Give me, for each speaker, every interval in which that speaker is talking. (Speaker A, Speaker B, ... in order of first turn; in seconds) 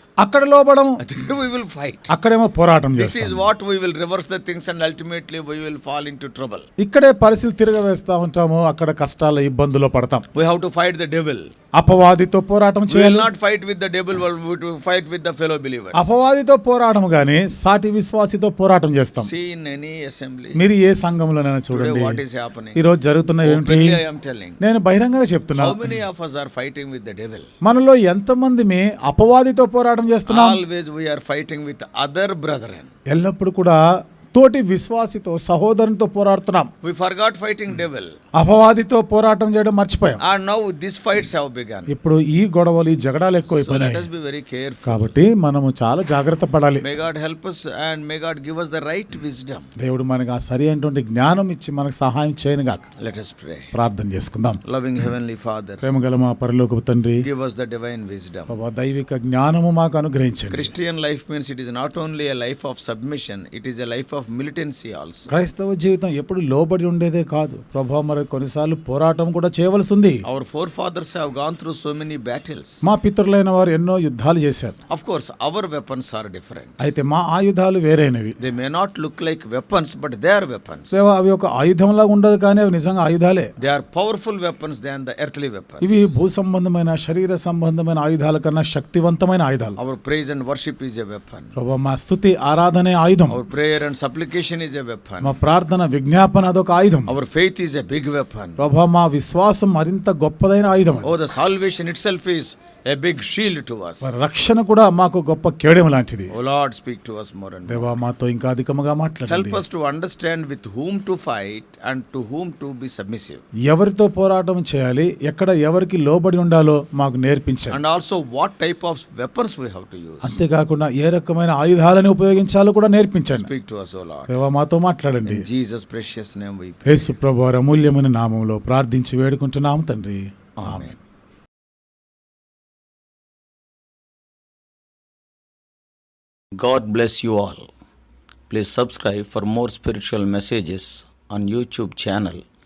Speaker A: 0.2-0.9, 2.1-3.4, 6.8-10.2, 11.8-13.3, 15.9-19.3, 20.6-22.2, 22.8-24.0, 24.6-26.0, 27.6-30.6, 33.1-36.7, 38.4-40.2, 41.9-44.0, 44.9-46.8, 49.8-52.8, 53.7-54.6, 55.8-57.2, 58.5-60.7, 65.3-70.2, 72.8-74.8, 76.8-78.3, 80.9-83.5, 85.8-89.8, 91.5-93.4, 95.2-97.1, 98.6-101.2, 104.0-106.3, 107.7-109.6, 113.7-117.8, 120.2-123.5, 124.3-125.4, 126.9-130.8
Speaker B: 1.0-2.1, 3.0-6.7, 10.3-11.5, 12.9-16.1, 19.2-20.6, 21.7-22.8, 23.4-24.6, 25.6-27.5, 30.3-32.9, 36.8-38.1, 40.2-41.9, 43.5-45.1, 46.8-49.6, 53.0-53.7, 54.6-55.8, 57.2-58.6, 60.5-65.3, 70.2-72.8, 74.9-76.7, 78.4-81.0, 83.6-86.0, 89.8-91.5, 93.3-95.3, 97.1-98.6, 101.0-104.1, 106.3-108.0, 109.3-113.4, 117.7-120.3, 123.3-124.3, 125.2-127.1, 130.6-131.0, 136.6-137.7, 138.5-142.4